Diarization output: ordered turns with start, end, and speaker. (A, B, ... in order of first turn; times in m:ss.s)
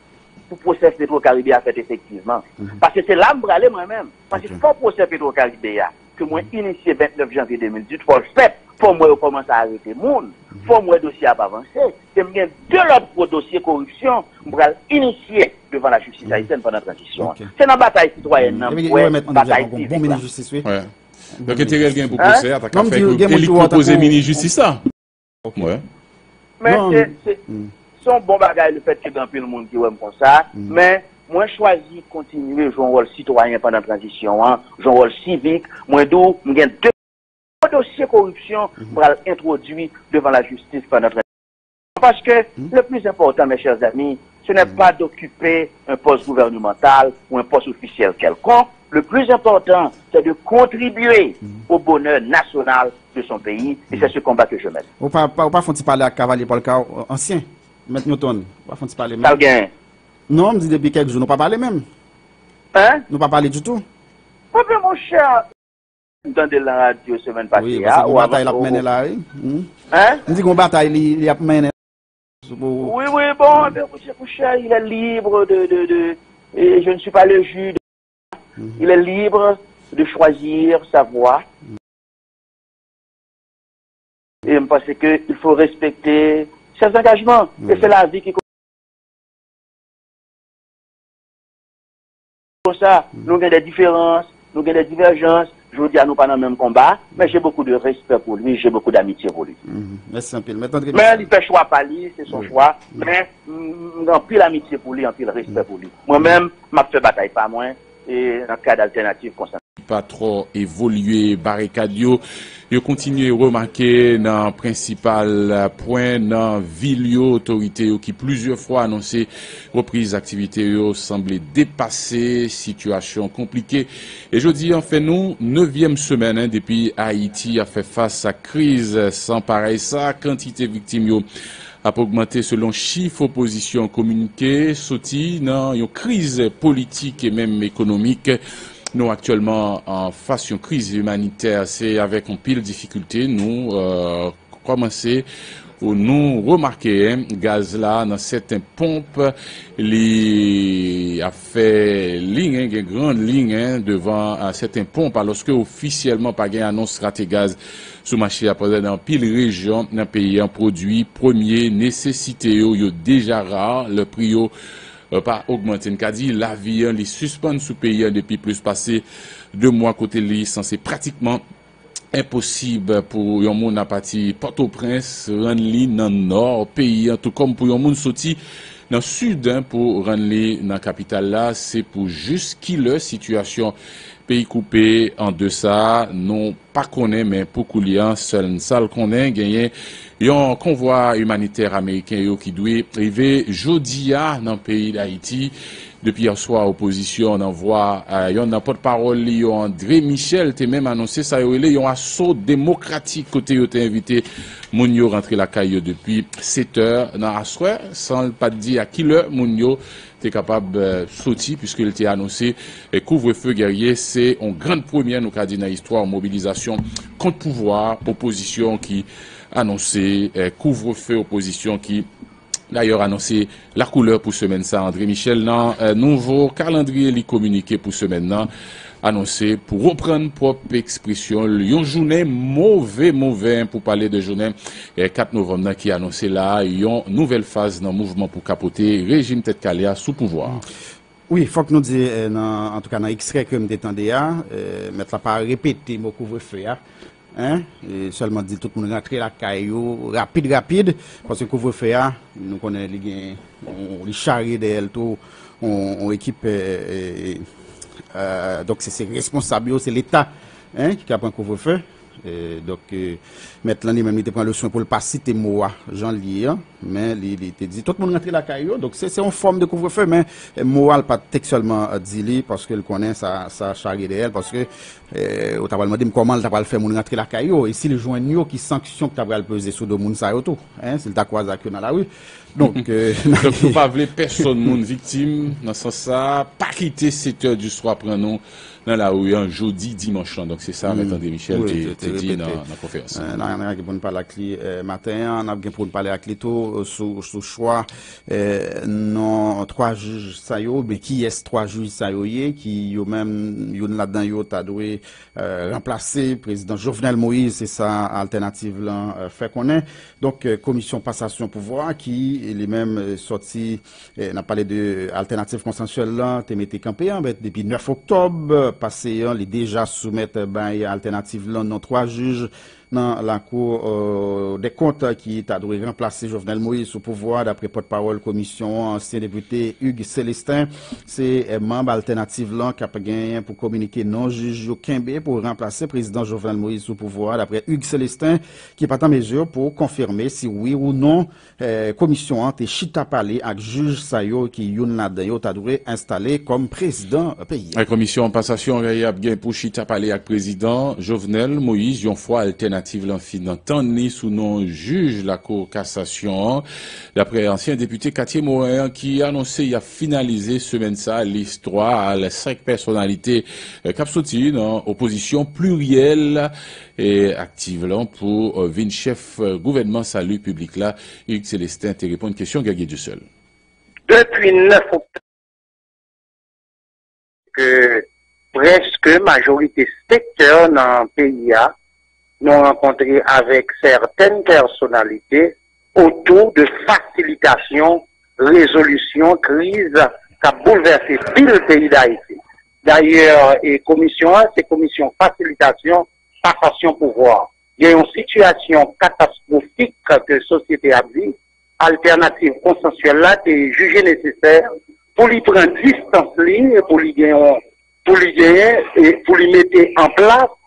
0:00.5-0:20.2 A
0:04.3-0:04.6 B
0:17.2-0:17.5 B
0:18.4-0:20.6 B
0:20.6-0:20.9 C
0:21.4-0:22.2 B
0:21.4-0:24.8 C
0:22.2-0:22.4 A
0:22.7-0:24.3 B
0:25.6-0:25.8 C
0:26.6-0:27.4 A
0:26.6-0:27.7 B
0:28.0-0:36.9 A
0:37.6-0:41.2 A
0:42.0-0:54.8 A
0:55.0-0:59.4 B
0:59.2-0:59.7 A
1:00.3-1:01.8 B
1:02.7-1:03.0 A
1:03.1-1:03.8 B
1:04.5-1:05.4 A
1:06.2-1:08.8 A
1:07.5-1:09.7 B
1:09.9-1:10.2 A
1:10.2-1:11.7 B
1:12.4-1:12.9 B
1:12.8-1:17.8 A
1:18.8-1:21.4 A
1:24.4-1:28.4 A
1:32.6-1:39.6 A
1:39.6-1:41.3 B
1:40.9-1:49.6 A
1:49.8-2:11.2 C
2:11.8-2:18.4 C
2:18.9-2:25.2 C
2:25.8-2:44.5 C
2:45.1-2:51.4 C
2:52.1-2:58.4 C
2:58.9-3:03.7 C
3:04.3-3:42.1 C
3:42.7-3:48.5 C
3:49.0-4:00.6 C
4:01.3-4:06.8 B
4:07.3-4:17.4 B
4:18.1-4:43.8 B
4:43.3-4:53.3 C
4:50.8-4:52.6 B
4:53.1-5:47.8 B
5:47.7-6:13.2 C
6:14.1-6:15.2 D
6:17.5-6:21.7 D
6:22.4-6:44.6 D
6:45.2-6:50.5 D